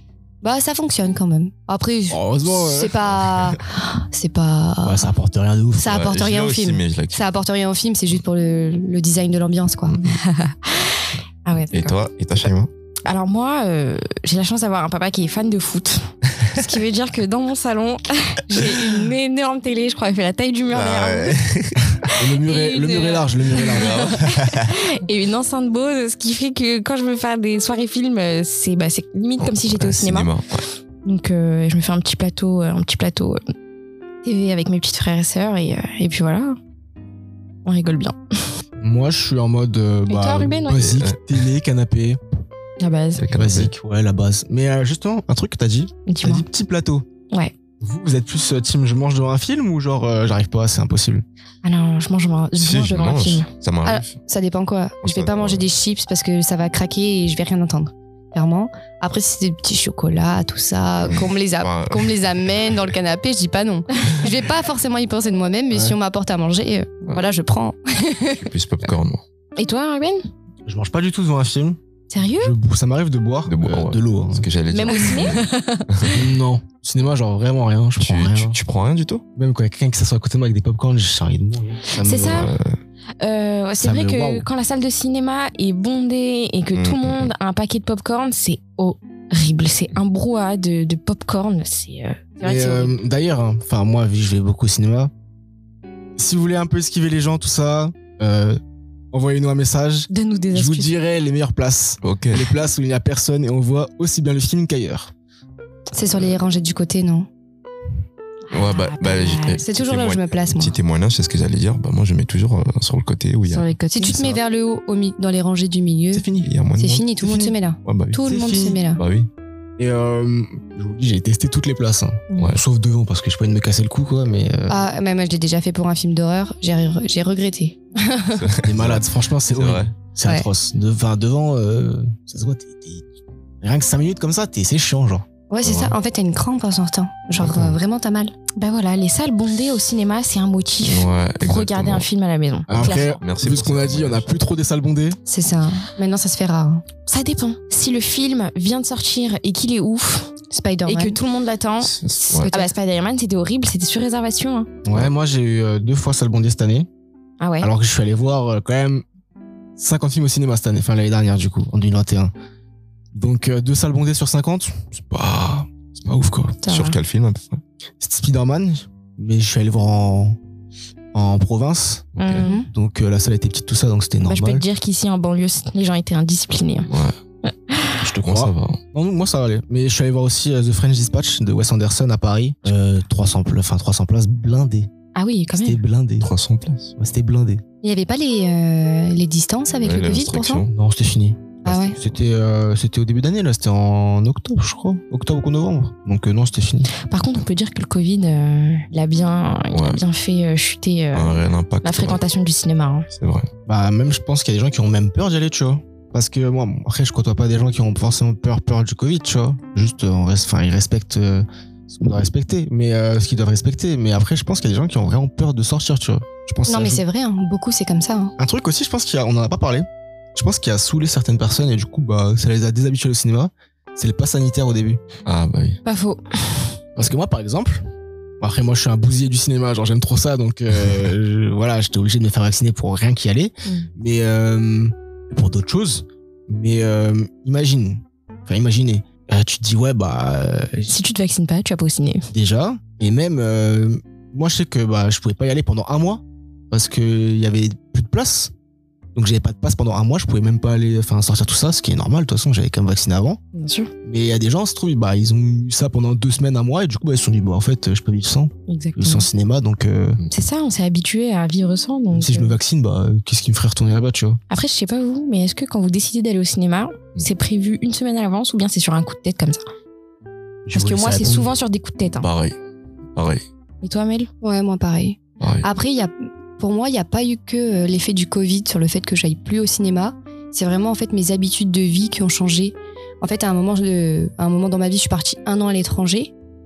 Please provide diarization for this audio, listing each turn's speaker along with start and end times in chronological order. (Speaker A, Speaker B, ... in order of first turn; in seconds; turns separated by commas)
Speaker A: 0.4-5.1, Speaker B: 2.1-3.2, Speaker B: 4.8-6.0, Speaker A: 5.8-10.0, Speaker C: 5.9-7.2, Speaker C: 9.9-10.2, Speaker D: 10.0-11.9, Speaker C: 11.7-12.7, Speaker D: 13.1-21.4, Speaker C: 20.7-22.0, Speaker D: 22.1-30.3, Speaker B: 22.1-24.2, Speaker C: 23.8-24.7, Speaker C: 29.4-30.6, Speaker D: 31.0-33.4, Speaker D: 34.2-36.6, Speaker D: 37.6-38.5, Speaker B: 38.8-42.2, Speaker D: 40.1-40.8, Speaker C: 40.7-41.2, Speaker D: 42.8-43.2, Speaker C: 43.2-43.7, Speaker B: 43.3-47.0, Speaker D: 46.1-46.4, Speaker B: 47.8-51.2, Speaker D: 51.6-53.5, Speaker C: 52.5-54.1, Speaker A: 53.8-68.5, Speaker C: 55.0-55.6, Speaker C: 61.0-62.2, Speaker B: 65.7-66.0, Speaker C: 68.4-69.2, Speaker D: 69.6-70.3, Speaker B: 70.7-71.8, Speaker D: 72.1-72.5, Speaker B: 72.4-74.5, Speaker C: 73.5-76.2, Speaker D: 74.7-76.2, Speaker B: 76.1-78.6, Speaker C: 78.0-79.2, Speaker B: 79.3-82.5, Speaker D: 82.0-82.5, Speaker C: 82.2-82.8, Speaker D: 83.2-93.0, Speaker B: 83.8-84.5, Speaker C: 86.7-87.3, Speaker B: 92.4-95.1, Speaker B: 96.2-98.6, Speaker B: 99.1-105.1, Speaker D: 100.1-100.9, Speaker C: 102.0-102.5, Speaker A: 105.9-107.3, Speaker D: 108.5-109.6, Speaker C: 108.5-114.3, Speaker A: 109.6-110.8, Speaker D: 113.5-114.1, Speaker A: 113.9-116.2, Speaker B: 116.1-116.5, Speaker C: 116.4-117.1, Speaker A: 116.8-119.0, Speaker B: 117.2-117.5, Speaker C: 117.8-118.2, Speaker B: 118.2-118.8, Speaker C: 118.9-119.3, Speaker B: 119.8-124.8, Speaker D: 122.3-122.6, Speaker A: 124.7-128.4, Speaker C: 128.4-129.9, Speaker B: 128.6-133.0, Speaker B: 133.6-135.2, Speaker A: 135.5-138.3, Speaker C: 135.6-135.9, Speaker C: 137.4-137.8, Speaker D: 138.6-143.2, Speaker C: 140.8-142.1, Speaker B: 142.7-145.2, Speaker C: 142.7-144.3, Speaker A: 145.2-146.8, Speaker D: 147.1-150.3, Speaker A: 150.5-151.2, Speaker D: 150.8-154.7, Speaker C: 151.8-152.5, Speaker A: 152.4-152.7, Speaker B: 154.8-156.9, Speaker D: 157.4-157.7, Speaker B: 157.6-159.0, Speaker B: 159.8-162.3, Speaker B: 163.1-166.6, Speaker C: 166.6-167.6, Speaker A: 166.7-166.9, Speaker B: 168.0-170.4, Speaker B: 171.1-174.6, Speaker C: 172.2-172.4, Speaker D: 172.2-172.6, Speaker A: 172.4-172.7, Speaker D: 174.2-176.9, Speaker C: 176.9-177.1, Speaker D: 177.4-178.0, Speaker B: 178.0-184.9, Speaker C: 178.2-178.8, Speaker D: 185.1-185.8, Speaker B: 185.5-186.3, Speaker C: 186.2-186.9, Speaker B: 187.0-187.6, Speaker A: 187.8-190.7, Speaker C: 189.8-190.7, Speaker B: 190.7-196.9, Speaker A: 191.6-192.0, Speaker D: 197.0-203.1, Speaker C: 199.7-200.0, Speaker C: 201.1-202.2, Speaker C: 203.1-203.5, Speaker B: 203.7-217.0, Speaker A: 216.7-218.3, Speaker B: 218.4-225.0, Speaker C: 225.2-225.8, Speaker D: 225.8-226.8, Speaker B: 226.9-227.8, Speaker B: 228.4-240.9, Speaker D: 240.9-242.3, Speaker B: 242.3-248.5, Speaker B: 249.1-253.4, Speaker D: 253.5-253.9, Speaker B: 254.0-260.2, Speaker D: 258.7-259.3, Speaker D: 260.3-262.6, Speaker B: 262.1-264.4, Speaker D: 264.5-269.6, Speaker B: 270.6-271.5, Speaker D: 270.7-272.3, Speaker C: 272.2-272.5, Speaker C: 273.1-273.4, Speaker D: 273.8-274.3, Speaker A: 274.4-286.3, Speaker C: 275.4-275.6